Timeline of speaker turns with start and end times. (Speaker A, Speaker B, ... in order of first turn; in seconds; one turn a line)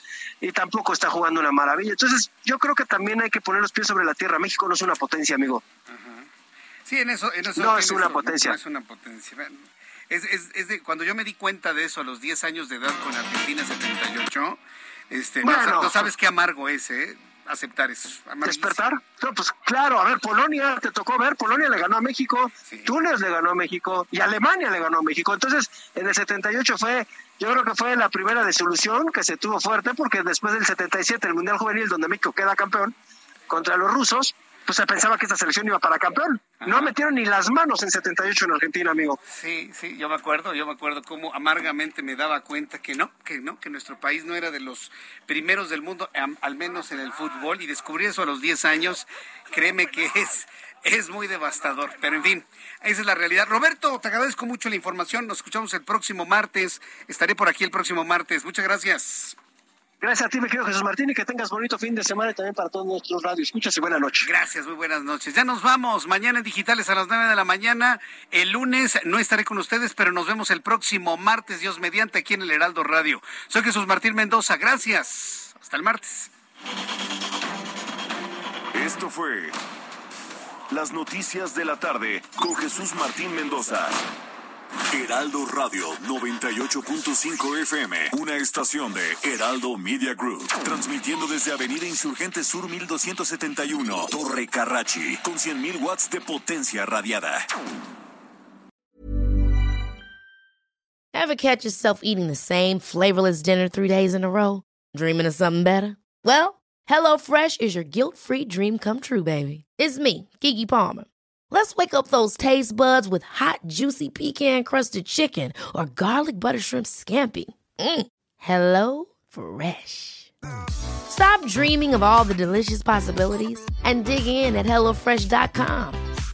Speaker A: 0.4-5.6
Speaker B: 5.9-6.3
Speaker B: 6.8-18.8
Speaker A: 7.5-8.6
Speaker A: 15.4-16.1
Speaker A: 18.4-32.9
Speaker B: 22.6-22.9
Speaker A: 33.5-39.2
Speaker B: 36.6-36.9
Speaker B: 39.3-59.4
Speaker A: 60.0-64.3
Speaker B: 64.2-76.3
Speaker C: 78.7-79.5
Speaker C: 80.7-84.0
Speaker C: 84.9-97.4
Speaker D: 101.1-120.3
Speaker D: 121.1-126.0